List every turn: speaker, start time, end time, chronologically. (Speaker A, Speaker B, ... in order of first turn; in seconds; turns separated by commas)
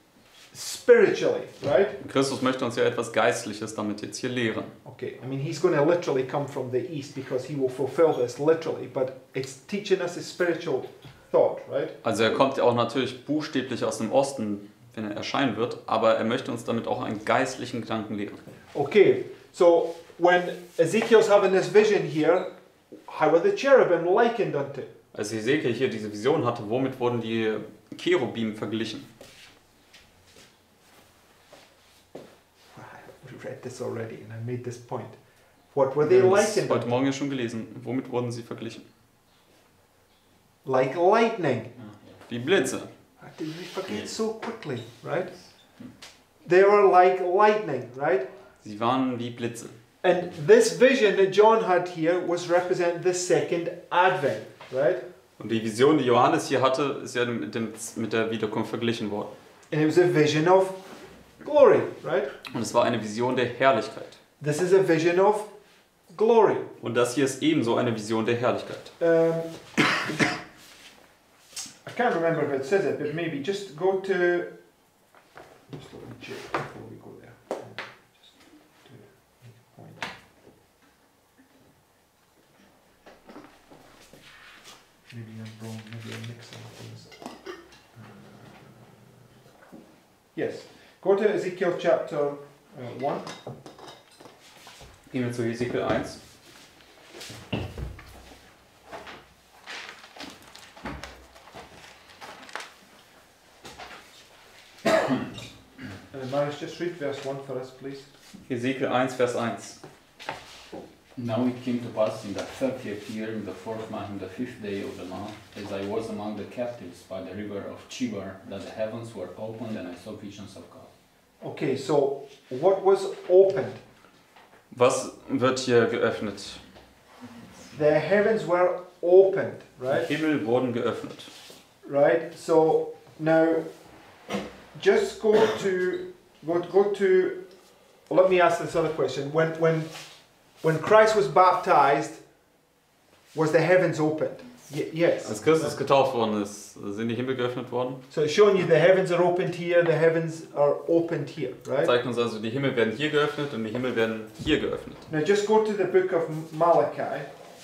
Speaker A: 0.5-2.0, Speaker B: 2.0-4.7, Speaker A: 4.8-11.9, Speaker B: 12.0-18.4, Speaker A: 18.7-22.5, Speaker A: 23.1-24.9, Speaker B: 25.1-29.1, Speaker A: 32.7-35.2, Speaker A: 35.7-36.9, Speaker B: 36.0-38.9, Speaker A: 40.6-41.7, Speaker C: 41.8-42.2, Speaker B: 42.3-42.9, Speaker A: 43.2-45.3, Speaker A: 46.4-48.3, Speaker B: 48.6-49.8, Speaker A: 50.0-55.0, Speaker B: 55.4-59.3, Speaker A: 59.7-60.8, Speaker A: 61.4-62.3, Speaker B: 62.5-64.2, Speaker A: 64.4-65.5, Speaker A: 66.1-66.7, Speaker B: 66.8-68.9, Speaker A: 69.0-69.5, Speaker A: 71.8-74.5, Speaker A: 75.7-80.0, Speaker A: 85.1-87.1, Speaker A: 88.0-88.8, Speaker A: 90.3-93.3, Speaker B: 95.1-96.2, Speaker A: 106.1-108.1, Speaker B: 108.5-109.8, Speaker C: 111.1-120.9, Speaker A: 121.4-123.8, Speaker B: 124.7-126.6, Speaker A: 127.7-130.1, Speaker B: 129.9-131.3, Speaker A: 131.8-133.7, Speaker A: 134.7-137.4, Speaker A: 138.1-139.9, Speaker A: 140.6-142.2, Speaker A: 143.3-145.8, Speaker B: 145.2-148.0, Speaker A: 148.1-151.9, Speaker B: 151.8-155.1, Speaker A: 155.1-157.3